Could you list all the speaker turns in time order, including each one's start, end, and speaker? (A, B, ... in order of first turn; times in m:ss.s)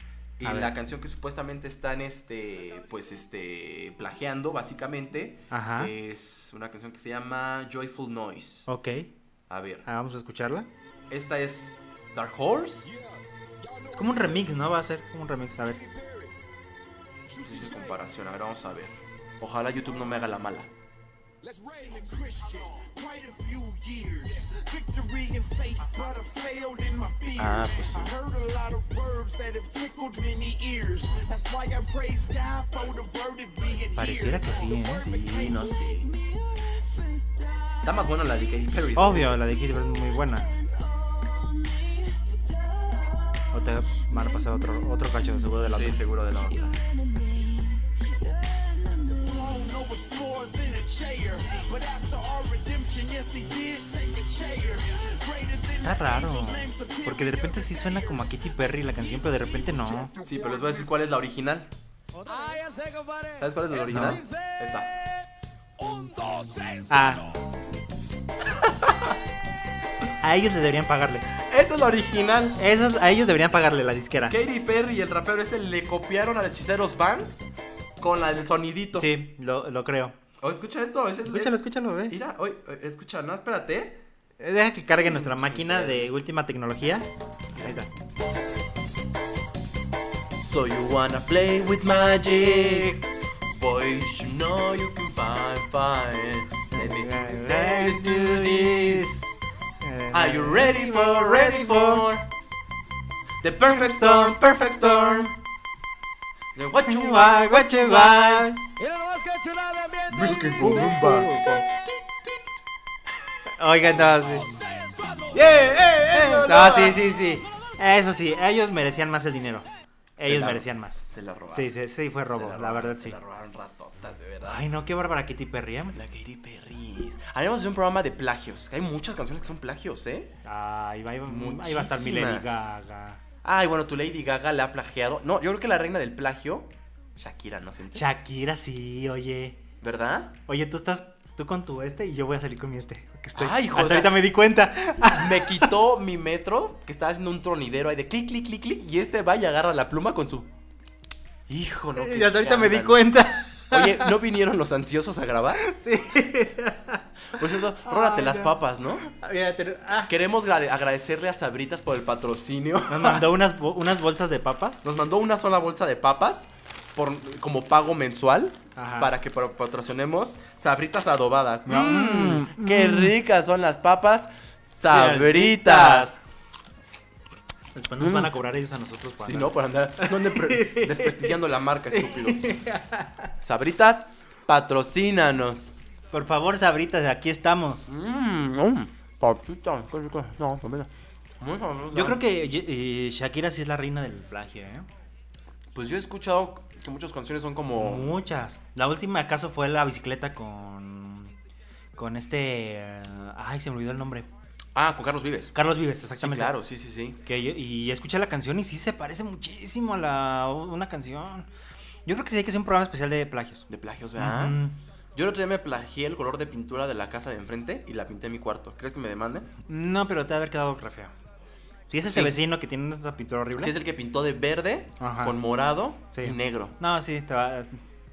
0:00.4-0:08.7 A
0:00.4-0:00.8 B
0:05.5-0:05.9 B
0:08.7-0:09.1 B
0:09.5-0:09.9 A
0:09.9-0:10.7 B
0:11.1-0:12.9 A
0:13.6-0:14.6 C
0:13.9-0:15.8 B
0:15.7-0:16.4 C
0:17.3-0:18.1 C
0:17.4-0:20.7 A
0:21.4-0:38.6 C
0:27.4-0:28.1 A
0:34.0-0:35.1 B
0:34.9-0:36.1 A
0:37.8-0:39.4 A
0:39.0-0:40.5 B
0:40.3-0:44.8 C
0:43.5-0:46.0 B
0:45.6-0:46.8 A
0:46.4-0:58.4 C
0:55.8-1:00.1 B
0:59.3-1:00.9 C
1:00.2-1:01.7 A
1:02.3-1:03.3 C
1:03.4-1:04.9 A
1:03.9-1:04.2 B
1:05.8-1:06.9 C
1:06.9-1:07.4 B
1:10.2-1:11.4 B
1:11.4-1:12.6 A
1:12.6-1:14.4 B
1:14.3-1:17.4 A
1:18.0-1:19.1 A
1:19.0-1:20.2 B
1:20.4-1:24.0 A
1:21.3-1:22.2 B
1:24.4-1:27.9 B
1:24.9-1:26.1 A
1:30.4-1:39.2 A
1:32.6-1:33.0 B
1:36.7-1:39.3 B
1:39.8-1:42.0 B
1:40.1-1:42.3 A
1:43.4-1:45.4 A
1:43.7-1:44.4 B
1:44.9-1:45.3 B
1:46.6-1:48.3 A
1:46.8-1:48.7 B
1:48.8-1:51.3 C
1:50.1-1:51.6 A
1:50.6-1:51.5 B
1:53.5-1:54.5 B
1:54.6-1:55.3 C
1:55.3-1:57.2 A
1:55.8-1:59.7 B
2:00.2-2:03.2 B
2:00.2-2:01.8 A
2:02.3-2:04.7 A
2:04.4-2:06.0 B
2:05.9-2:10.3 A
2:10.4-2:13.2 B
2:11.3-2:12.7 A
2:13.4-2:18.2 A
2:17.9-2:19.6 B
2:19.8-2:20.4 A
2:20.5-2:25.7 B
2:23.3-2:24.2 A
2:25.0-2:30.5 A
2:31.5-2:33.2 A
2:32.0-2:34.1 B
2:33.7-2:35.6 A
2:35.6-2:40.1 B
2:37.3-2:39.0 A
2:40.1-2:43.4 A
2:42.9-2:44.8 B
2:44.8-2:56.2 A
2:48.8-2:49.1 B
2:51.7-2:53.1 B
2:54.9-2:56.2 B
2:57.8-3:03.3 B
2:58.0-2:58.3 A
2:59.2-3:02.5 A
3:03.4-3:05.7 A
3:06.1-3:07.9 B
3:07.9-3:12.2 A
3:11.9-3:14.9 B
3:15.7-3:18.2 A
3:17.8-3:21.3 B
3:22.0-3:24.3 B
3:24.8-3:25.6 A
3:25.6-3:26.6 B
3:26.1-3:27.2 A
3:27.2-3:31.5 B
3:32.1-3:34.8 B
3:33.7-3:34.6 A
3:35.2-3:39.5 A
3:39.7-3:41.1 B
3:41.9-3:43.8 B
3:42.0-3:42.4 A
3:43.6-3:46.8 A
3:45.0-3:45.4 B
3:46.1-3:47.8 B